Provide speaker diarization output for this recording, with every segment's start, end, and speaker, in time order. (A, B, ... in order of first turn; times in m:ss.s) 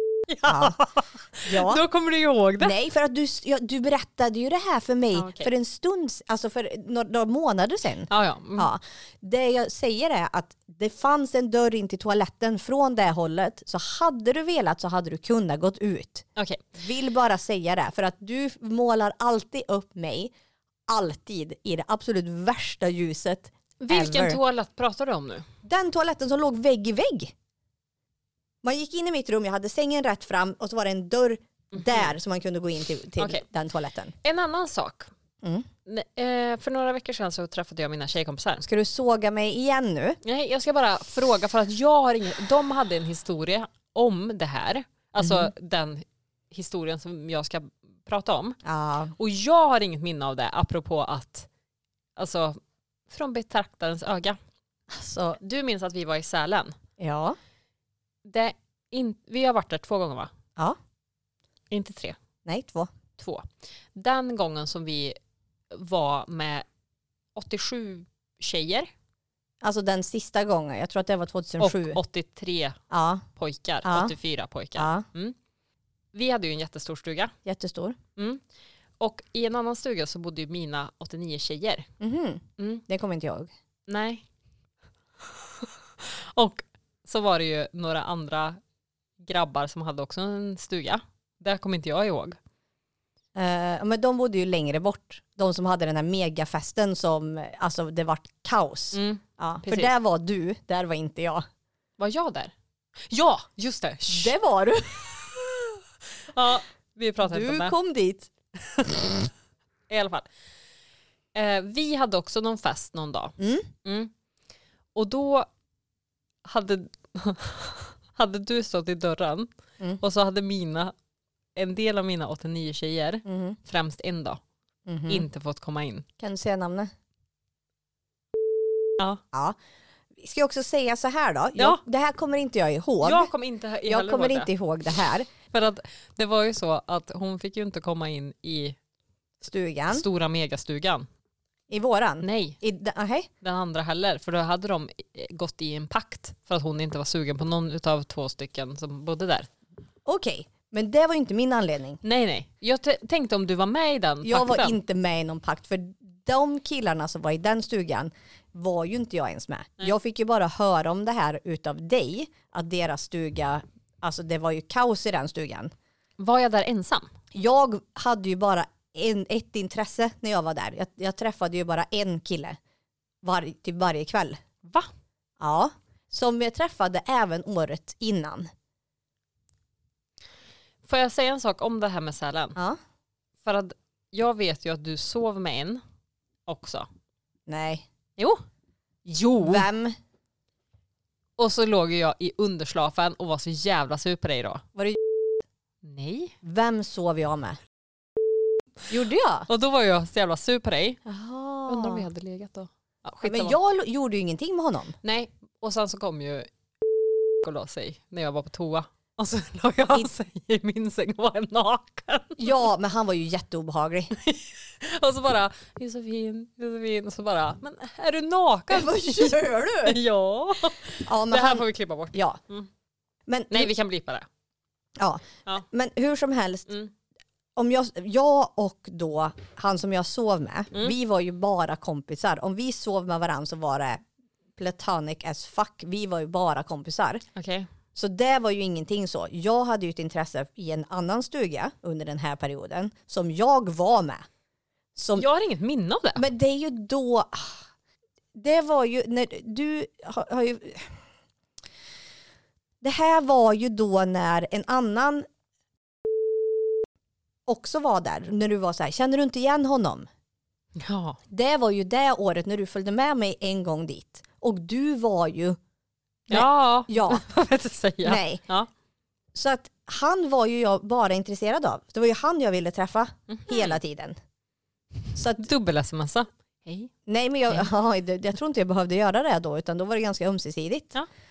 0:00.3-0:02.7 A
0:00.5-0:00.8 B
0:01.4-0:01.8 B
0:02.6-0:20.3 B
0:05.1-0:05.5 A
0:08.1-0:08.7 A
0:16.4-0:16.7 A
0:20.9-0:24.4 B
0:23.8-0:25.5 A
0:25.6-0:27.3 B
0:28.6-0:34.1 B
0:31.7-0:32.1 A
0:33.2-0:33.4 A
0:34.2-0:35.1 A
0:35.4-0:35.7 B
0:35.8-0:38.6 A
0:38.6-0:40.2 B
0:40.2-0:48.6 A
0:45.2-0:45.5 B
0:48.6-0:49.1 B
0:49.2-0:51.5 A
0:52.2-0:52.6 A
0:53.1-0:54.4 A
0:54.9-0:55.4 B
0:55.4-0:56.7 A
0:57.0-0:57.4 B
0:58.2-1:00.3 A
1:01.7-1:02.2 A
1:02.4-1:02.9 B
1:03.2-1:05.2 A
1:05.7-1:06.6 A
1:07.4-1:08.9 A
1:09.6-1:12.0 B
1:11.6-1:12.8 A
1:12.9-1:13.2 B
1:13.4-1:15.4 A
1:13.8-1:14.1 B
1:14.8-1:15.0 B
1:16.1-1:17.3 A
1:17.4-1:18.0 B
1:18.2-1:18.4 A
1:19.0-1:21.9 A
1:22.0-1:23.5 B
1:22.6-1:22.8 A
1:23.9-1:24.2 A
1:26.0-1:28.6 A
1:29.2-1:32.4 A
1:33.3-1:41.4 B
1:38.9-1:39.9 A
1:42.0-1:42.5 A
1:43.1-1:44.3 A
1:44.1-1:45.6 B
1:46.3-1:47.7 A
1:47.2-1:48.9 B
1:49.9-1:50.3 A
1:51.3-1:54.1 A
1:53.4-1:53.7 B
1:54.9-1:55.5 A
1:56.4-1:59.5 A
2:00.0-2:00.9 A
2:01.6-2:04.4 A
2:03.2-2:03.6 B
2:04.8-2:05.2 B
2:05.1-2:06.0 A
2:06.2-2:06.9 B
2:09.3-2:09.6 B
2:10.2-2:13.3 B
2:11.6-2:11.8 A
2:13.0-2:14.5 A
2:13.8-2:15.3 B
2:15.5-2:18.8 A
2:19.4-2:20.0 B
2:19.9-2:21.1 A
2:21.7-2:23.3 B
2:22.2-2:22.6 A
2:23.4-2:29.5 A
2:30.0-2:32.0 B
2:32.0-2:34.8 A
2:34.2-2:45.7 B
2:46.2-2:47.1 A
2:47.3-2:52.6 B
2:53.2-2:54.4 B
2:55.4-2:58.5 B
3:00.8-3:02.6 A
3:03.4-3:05.8 A
3:06.5-3:06.9 A
3:07.5-3:07.8 B
3:08.2-3:08.4 A
3:09.0-3:09.7 A
3:09.4-3:10.0 B
3:11.4-3:14.6 A
3:14.7-3:15.0 B
3:15.8-3:16.4 A
3:16.4-3:17.6 B
3:18.9-3:19.5 B
3:19.5-3:21.0 A
3:21.0-3:22.1 B
3:21.7-3:23.6 A
3:23.2-3:24.9 B
3:25.0-3:26.5 A
3:27.4-3:32.5 A
3:32.4-3:34.1 B
3:34.2-3:42.7 A
3:38.7-3:40.0 B
3:41.0-3:42.4 B
3:43.3-3:43.7 B
3:43.5-3:44.3 A
3:45.0-3:46.7 B
3:47.6-3:54.0 B
3:54.6-3:57.2 B
3:57.3-3:57.7 A
3:57.9-4:04.3 B
4:05.0-4:05.3 B
4:05.2-4:06.3 A
4:06.2-4:07.6 B
4:08.3-4:11.0 B
4:12.8-4:15.2 B
4:17.5-4:20.1 B
4:20.8-4:21.2 A
4:21.3-4:25.6 B
4:26.3-4:27.2 B
4:26.3-4:28.7 A
4:28.0-4:28.4 B
4:29.3-4:34.1 B
4:33.3-4:33.8 A
4:35.1-4:35.4 B
4:35.4-4:36.9 A
4:37.0-4:41.0 B